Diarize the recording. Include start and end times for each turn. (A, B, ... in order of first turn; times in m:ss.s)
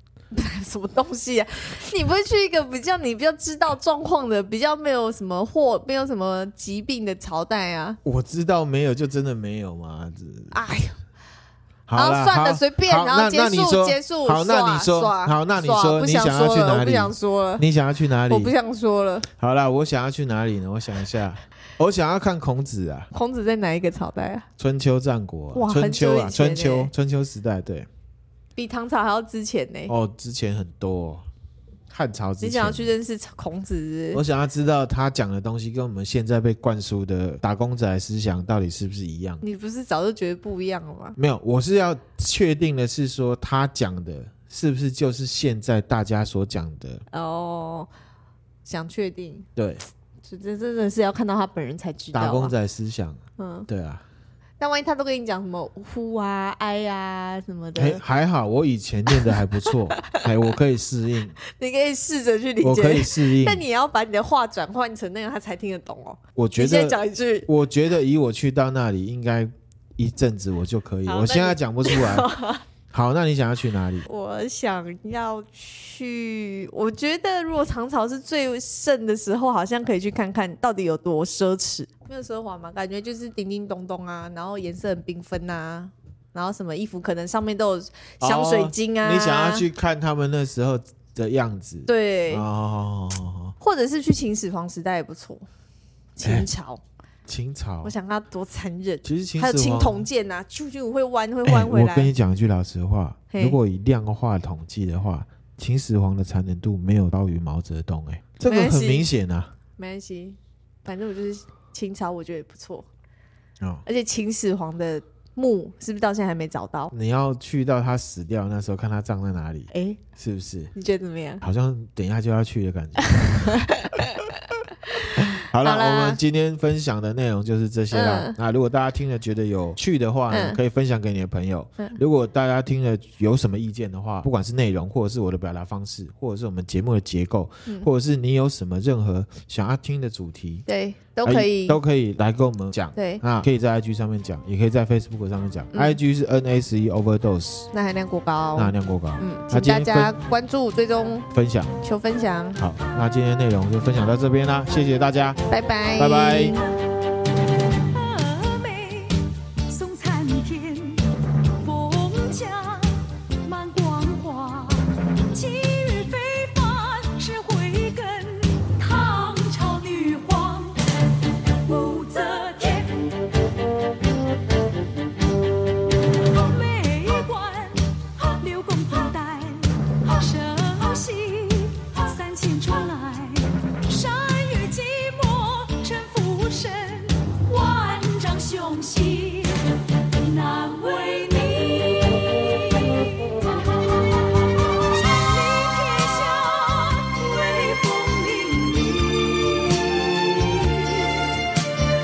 0:00.3-0:08.0 A
0:08.0-0:10.6 B
0:10.5-0:11.0 A
0:11.9-0:18.5 B
0:12.0-0:17.6 A
0:18.3-0:19.3 A
0:19.3-0:23.1 B
0:23.1-0:24.5 A
0:24.6-0:27.9 B
0:25.5-0:26.9 A
0:28.6-0:29.9 A
0:29.9-0:31.2 B
0:31.9-0:32.9 B
0:32.4-0:34.2 A
0:34.1-0:39.4 B
0:39.4-0:41.2 A
0:41.2-0:47.0 B
0:47.1-0:47.9 A
0:48.6-0:49.5 A
0:49.6-0:49.8 B
0:50.2-0:52.5 A
0:52.1-0:54.0 B
0:53.4-0:53.7 A
0:54.6-0:58.0 A
0:57.8-1:01.4 B
0:59.2-1:00.2 A
1:01.4-1:07.5 A
1:02.6-1:03.6 B
1:06.4-1:12.3 B
1:11.1-1:12.6 A
1:12.9-1:14.1 B
1:14.1-1:29.7 A
1:28.2-1:33.6 B
1:31.9-1:32.5 A
1:33.6-1:35.5 A
1:36.2-1:36.8 A
1:37.3-1:37.9 B
1:37.8-1:42.1 A
1:39.0-1:40.1 B
1:41.5-1:49.5 B
1:43.3-1:43.6 A
1:48.5-1:49.1 A
1:49.8-1:52.9 A
1:53.8-1:56.9 A
1:56.9-2:00.7 B
1:59.7-2:00.0 A
2:00.7-2:01.4 A
2:01.4-2:03.6 B
2:03.0-2:06.2 A
2:05.2-2:20.6 B
2:07.9-2:08.4 A
2:10.3-2:10.6 A
2:20.7-2:21.8 A
2:21.2-2:27.7 B
2:23.0-2:23.2 A
2:25.7-2:26.0 A
2:27.7-2:31.3 A
2:28.6-2:30.1 B
2:31.3-2:31.8 B
2:31.8-2:32.6 A
2:32.6-2:35.4 B
2:35.5-2:36.6 A
2:36.0-2:36.6 B
2:37.7-2:50.8 C
2:51.6-2:53.1 C
2:56.2-3:21.4 C